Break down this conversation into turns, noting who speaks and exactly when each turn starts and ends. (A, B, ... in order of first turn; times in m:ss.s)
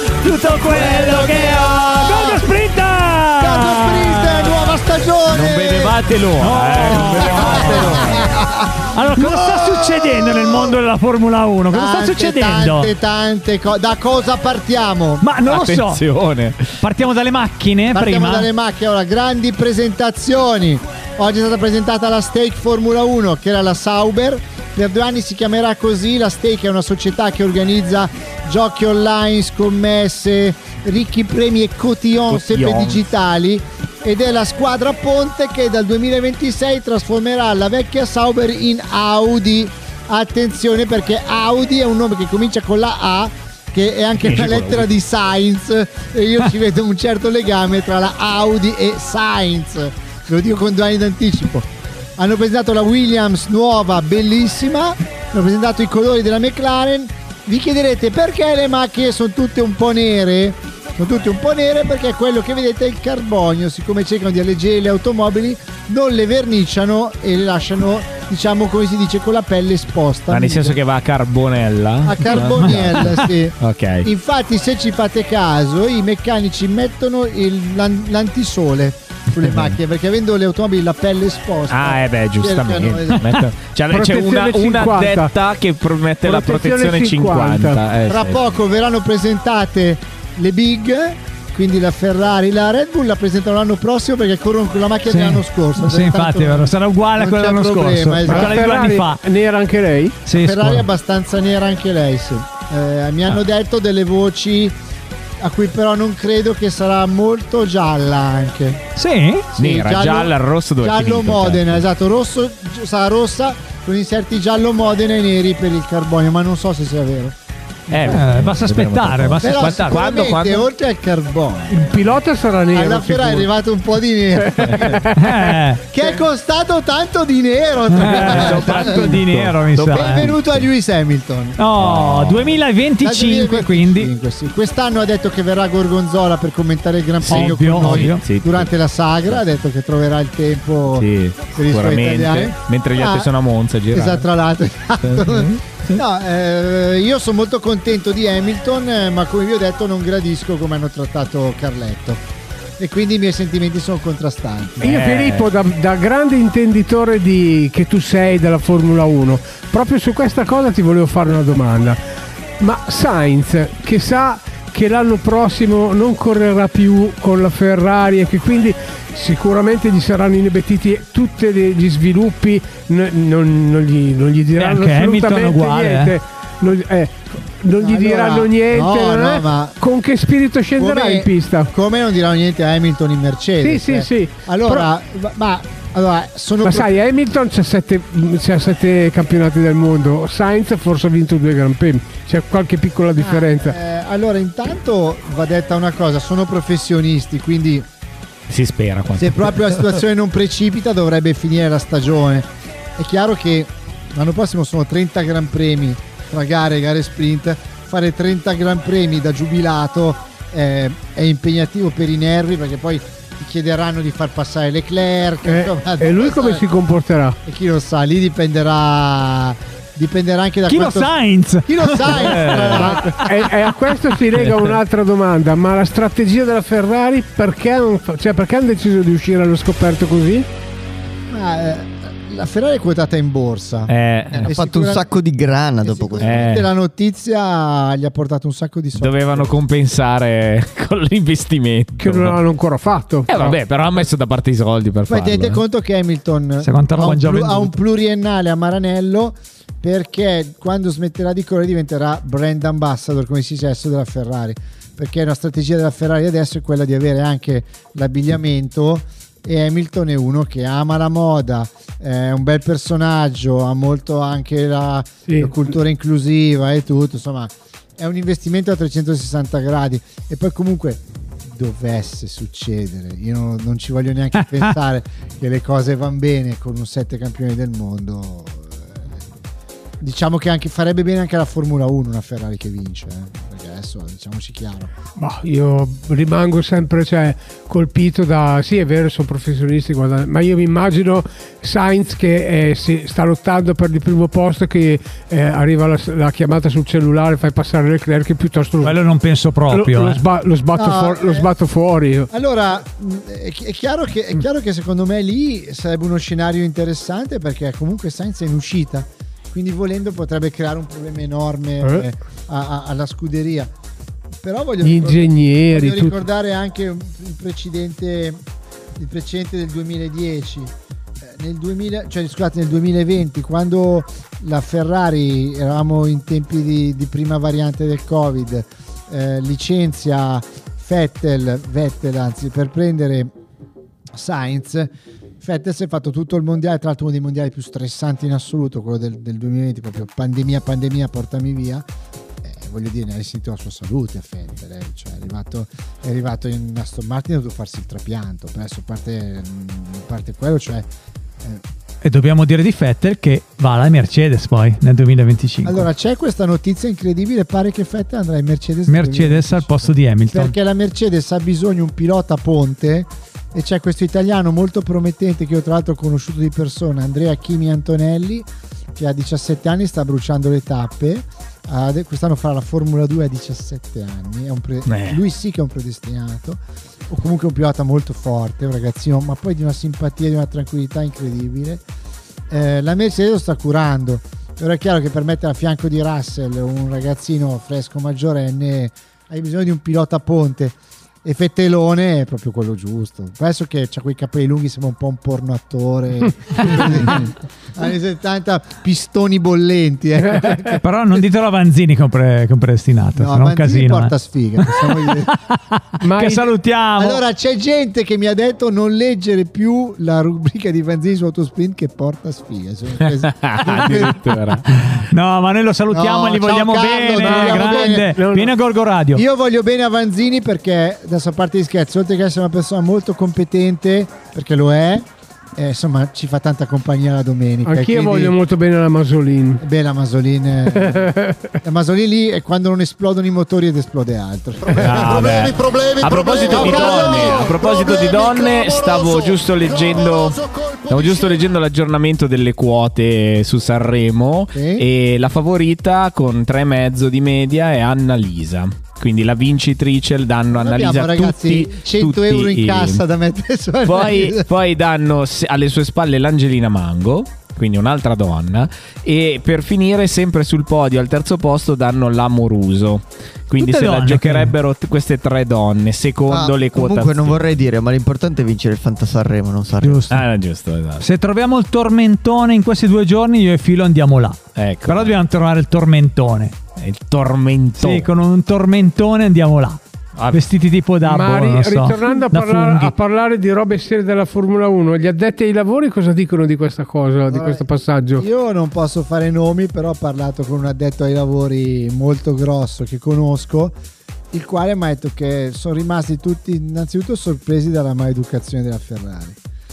0:00.2-0:04.5 A
0:00.6-0:02.5 B
0:03.4-0:06.0 B
0:05.3-0:08.4 C
0:06.4-0:08.2 A
0:06.8-0:10.8 B
0:08.9-0:12.9 A
0:11.7-0:15.3 B
0:15.2-0:16.0 A
0:15.5-0:16.8 C
0:16.8-0:18.5 A
0:17.9-1:10.8 B
0:32.3-0:33.0 C
0:44.2-0:44.9 C
1:10.3-1:14.1 C
1:12.0-1:23.3 B
1:12.3-1:13.2 A
1:19.4-1:19.8 C
1:21.7-1:28.5 C
1:23.9-1:25.3 D
1:26.2-1:27.8 D
1:28.1-1:38.6 B
1:35.1-1:39.2 A
1:38.2-1:40.2 D
1:40.2-1:40.9 A
1:40.3-1:44.8 B
1:45.4-1:48.8 B
1:49.0-1:49.5 A
1:49.5-1:57.4 B
1:49.6-1:51.8 C
1:57.9-1:58.3 B
1:57.9-2:00.7 C
1:58.1-2:00.0 A
1:59.4-2:02.2 B
2:01.7-2:03.5 D
2:02.7-2:05.0 B
2:04.4-2:05.5 D
2:04.6-2:05.0 C
2:05.2-2:05.8 A
2:05.9-2:09.1 B
2:07.9-2:10.3 A
2:08.0-2:10.7 C
2:09.9-2:11.6 B
2:11.6-2:14.1 A
2:11.8-2:12.6 C
2:13.0-2:23.3 B
2:17.2-2:18.2 A
2:17.2-2:18.7 C
2:20.9-2:24.3 C
2:23.9-2:32.2 B
2:25.0-2:26.0 C
2:32.8-2:34.9 B
2:34.8-2:42.0 D
2:34.8-2:35.5 C
2:42.6-3:01.7 D
2:54.6-2:56.2 A
2:57.8-2:59.8 B
3:00.8-3:06.9 B
3:03.6-3:04.9 D
3:06.6-3:13.8 D
3:13.2-3:17.9 B
3:18.5-3:20.0 C
3:19.2-3:36.7 B
3:35.4-3:37.4 D
3:37.4-3:43.2 B
3:40.7-3:44.2 A
3:42.3-3:42.9 C
3:42.7-3:50.5 D
3:44.4-3:44.7 C
3:51.3-3:55.1 B
3:53.9-3:54.5 C
3:54.5-3:56.5 E
3:55.8-3:59.6 B
3:56.2-3:56.7 C
3:59.0-4:02.4 C
4:02.0-4:03.6 D
4:03.3-4:05.6 C
4:05.1-4:39.2 B
4:06.6-4:07.7 A
4:25.3-4:25.6 D
4:40.0-4:44.9 B
4:45.2-4:59.0 D
4:58.8-5:00.2 A
4:59.7-5:02.3 D
5:00.8-5:01.5 B
5:02.3-5:13.7 B
5:14.4-5:18.4 B
5:14.8-5:16.2 D
5:19.0-5:33.3 B
5:34.1-5:41.9 B
5:42.4-5:50.9 B
5:52.0-5:55.8 A
5:55.6-6:21.8 B
5:58.9-6:00.5 A
6:14.9-6:15.2 C
6:22.5-6:40.8 B
6:40.8-6:47.2 A
6:43.2-6:45.3 B
6:46.0-6:46.5 D
6:47.0-6:54.6 B
6:53.0-6:54.6 C
6:53.7-6:54.1 A
6:54.7-6:59.2 A
6:55.9-6:58.1 B
6:57.2-6:58.5 D
6:59.2-7:08.4 B
7:07.6-7:09.6 D
7:09.6-7:15.5 B
7:10.7-7:11.5 D
7:14.7-7:33.0 C
7:16.0-7:18.3 B
7:24.5-7:24.8 B
7:30.5-7:34.5 B
7:33.8-7:47.4 C
7:43.6-7:44.6 A
7:46.3-7:50.0 E
7:49.8-7:50.3 A
7:50.1-7:51.1 C
7:51.0-7:56.6 A
7:54.6-7:55.2 C
7:56.8-7:58.1 C
7:57.8-8:03.0 A
8:00.2-8:00.5 C
8:01.0-8:08.2 D
8:07.3-8:13.8 B
8:14.3-8:19.4 B